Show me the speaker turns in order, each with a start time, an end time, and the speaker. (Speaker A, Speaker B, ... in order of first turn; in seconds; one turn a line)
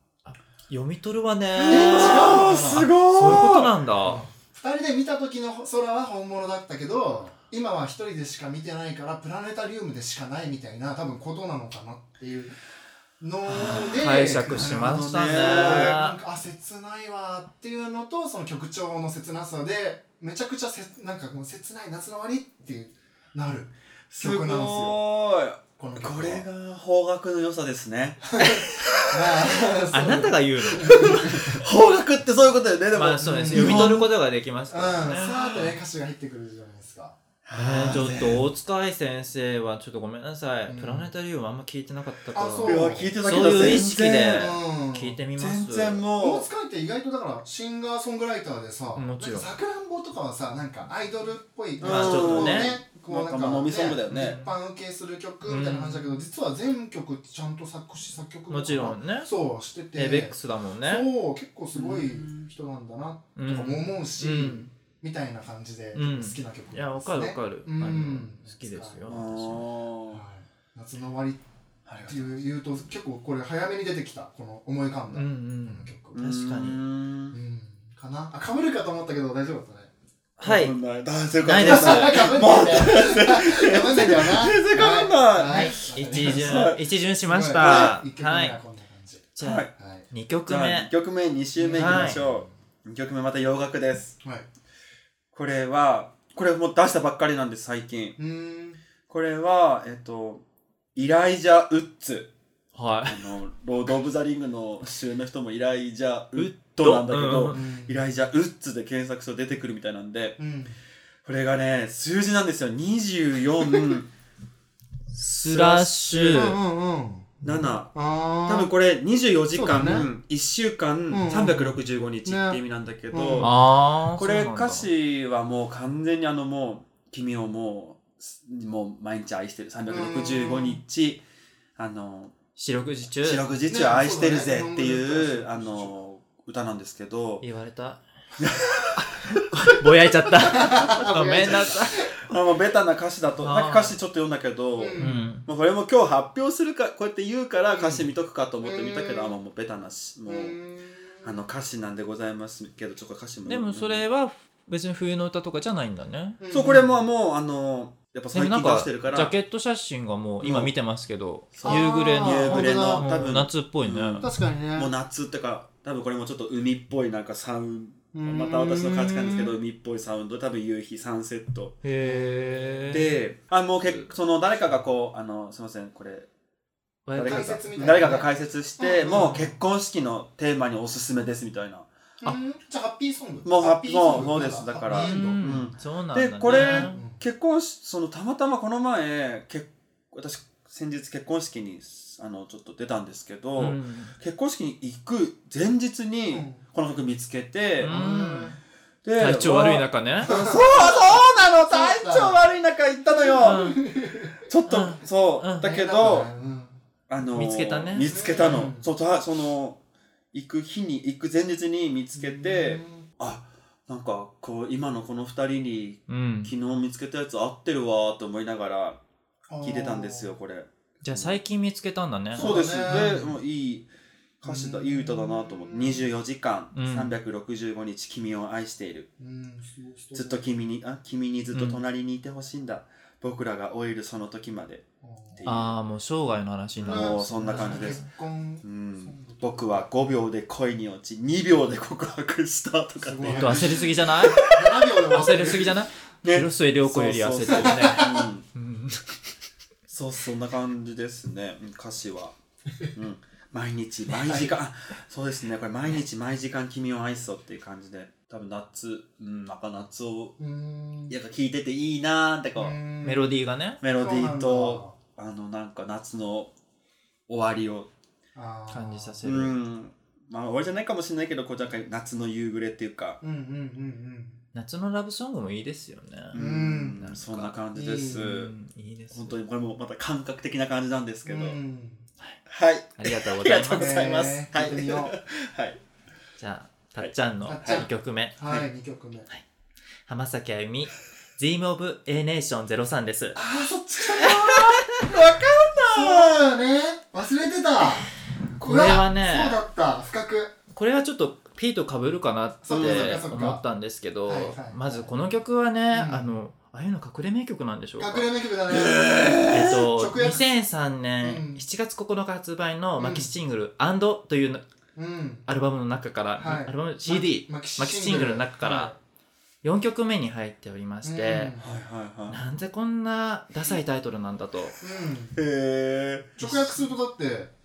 Speaker A: 0.2-4.3
Speaker B: 1.6-3.7
Speaker C: 1.7-12.5
Speaker C: 13.2-25.0
Speaker B: 13.5-16.0
Speaker A: 13.6-16.2
Speaker B: 24.1-29.5
Speaker C: 25.8-26.4
Speaker C: 28.3-31.6
Speaker A: 29.9-31.6
Speaker B: 31.0-34.1
Speaker A: 32.9-35.4
Speaker C: 33.2-34.0
Speaker C: 34.7-37.2
Speaker B: 35.2-35.7
Speaker B: 37.5-38.5
Speaker A: 37.5-46.0
Speaker C: 40.7-41.1
Speaker C: 42.3-45.2
Speaker B: 42.6-44.5
Speaker B: 45.4-46.5
Speaker C: 46.2-69.0
Speaker A: 49.0-49.5
Speaker B: 51.8-54.4
Speaker A: 51.8-52.8
Speaker A: 54.1-54.5
Speaker A: 55.5-56.2
Speaker A: 58.5-59.3
Speaker A: 60.0-61.1
Speaker B: 61.7-62.5
Speaker A: 63.4-64.7
Speaker A: 66.0-69.7
Speaker B: 69.1-70.2
Speaker C: 70.1-71.4
Speaker B: 71.9-72.3
Speaker C: 72.0-76.2
Speaker A: 75.1-76.8
Speaker B: 76.2-77.4
Speaker C: 77.3-79.9
Speaker A: 80.4-80.8
Speaker B: 80.4-86.8
Speaker A: 81.4-82.5
Speaker C: 81.6-90.1
Speaker A: 85.5-88.6
Speaker B: 87.6-88.0
Speaker A: 89.3-90.9
Speaker B: 89.4-89.7
Speaker B: 90.5-94.2
Speaker C: 91.6-92.5
Speaker A: 91.8-92.2
Speaker B: 95.3-98.2
Speaker C: 98.2-98.8
Speaker B: 99.1-100.4
Speaker B: 101.0-102.3
Speaker A: 102.8-103.3
Speaker B: 103.1-110.4
Speaker A: 106.4-107.6
Speaker C: 107.5-108.0
Speaker C: 110.4-110.8
Speaker B: 111.2-114.1
Speaker A: 115.1-116.6
Speaker B: 115.5-116.5
Speaker C: 116.1-118.7
Speaker B: 117.4-123.5
Speaker C: 119.5-120.1
Speaker C: 121.1-122.6
Speaker C: 123.1-123.5
Speaker A: 123.4-124.9
Speaker B: 124.1-131.2
Speaker C: 129.9-130.8
Speaker B: 131.8-132.3
Speaker A: 132.6-133.4
Speaker B: 133.2-137.4
Speaker C: 133.7-135.9
Speaker A: 137.4-138.0
Speaker B: 138.4-139.2
Speaker A: 139.0-142.1
Speaker C: 140.4-142.1
Speaker B: 142.2-150.6
Speaker A: 143.4-144.0
Speaker C: 144.8-145.2
Speaker A: 145.0-145.4
Speaker C: 147.7-148.1
Speaker C: 148.6-149.3
Speaker C: 150.3-151.4
Speaker B: 151.2-154.0
Speaker A: 153.5-156.4
Speaker C: 156.4-157.0
Speaker B: 156.5-159.3
Speaker A: 158.3-164.3
Speaker B: 160.4-160.7
Speaker B: 161.6-171.8
Speaker C: 161.7-163.1
Speaker C: 164.2-164.9
Speaker C: 168.1-169.6
Speaker A: 171.8-173.1
Speaker C: 172.0-173.1
Speaker B: 172.9-176.3
Speaker A: 173.8-174.1
Speaker A: 177.1-178.2
Speaker B: 177.2-181.9
Speaker C: 177.2-179.5
Speaker A: 179.1-179.4
Speaker C: 182.2-185.7
Speaker B: 183.4-197.9
Speaker A: 184.9-187.0
Speaker C: 186.5-187.2
Speaker A: 193.6-194.2
Speaker C: 196.3-196.6
Speaker A: 197.8-198.6
Speaker C: 197.8-198.6
Speaker B: 199.0-203.8
Speaker A: 199.2-200.3
Speaker C: 200.2-202.4
Speaker C: 203.1-204.4
Speaker A: 203.4-203.8
Speaker B: 204.5-206.3
Speaker A: 204.7-205.7
Speaker C: 205.6-206.8
Speaker B: 207.1-209.8
Speaker A: 207.3-208.2
Speaker C: 208.1-208.9
Speaker B: 210.3-219.0
Speaker C: 212.2-213.1
Speaker A: 216.1-216.5
Speaker C: 219.5-220.3
Speaker B: 219.6-221.4
Speaker A: 221.0-223.3
Speaker C: 222.3-223.2
Speaker B: 222.3-223.9
Speaker B: 224.4-229.1
Speaker C: 224.4-226.1
Speaker A: 226.7-227.1
Speaker C: 229.2-230.5
Speaker B: 230.1-235.7
Speaker A: 231.5-231.8
Speaker C: 235.0-235.5
Speaker A: 235.4-238.1
Speaker B: 236.8-238.0
Speaker C: 236.8-239.9
Speaker B: 238.6-245.6
Speaker C: 243.0-245.8
Speaker A: 243.3-244.4
Speaker A: 245.1-249.2
Speaker B: 246.2-248.5
Speaker C: 247.5-248.2
Speaker B: 249.9-252.4
Speaker B: 252.9-260.4
Speaker C: 254.2-254.6
Speaker C: 260.4-261.2
Speaker B: 261.1-262.8
Speaker C: 262.6-263.3
Speaker A: 263.0-263.8
Speaker B: 263.8-266.5
Speaker C: 263.9-265.0
Speaker B: 267.3-267.9
Speaker C: 268.4-269.2
Speaker A: 268.7-269.6
Speaker B: 269.2-273.2
Speaker C: 273.2-274.4
Speaker A: 274.5-276.4
Speaker B: 276.3-278.5
Speaker C: 276.4-277.0
Speaker A: 277.0-277.6
Speaker C: 277.7-278.3
Speaker A: 278.1-279.4
Speaker B: 279.1-281.6
Speaker C: 281.3-282.1
Speaker B: 282.5-285.8
Speaker A: 283.0-284.1
Speaker C: 283.8-285.2
Speaker A: 286.4-288.4
Speaker C: 287.5-289.3
Speaker A: 290.1-293.4
Speaker C: 293.4-294.9
Speaker A: 294.2-294.7
Speaker B: 294.2-296.4
Speaker C: 295.9-300.6
Speaker A: 298.6-299.6
Speaker A: 300.7-308.3
Speaker C: 302.6-303.6
Speaker B: 302.7-303.2
Speaker C: 304.3-305.1
Speaker C: 305.9-306.3
Speaker C: 308.0-310.5
Speaker B: 308.7-309.9
Speaker A: 309.5-314.6
Speaker C: 311.2-311.6
Speaker C: 313.0-313.3
Speaker C: 314.9-315.5
Speaker A: 315.5-318.9
Speaker C: 316.4-319.0
Speaker A: 319.6-321.5
Speaker C: 321.0-321.7
Speaker B: 321.6-322.4
Speaker A: 322.3-324.8
Speaker C: 324.8-325.4
Speaker B: 325.4-326.4
Speaker C: 326.4-327.5
Speaker A: 326.4-326.8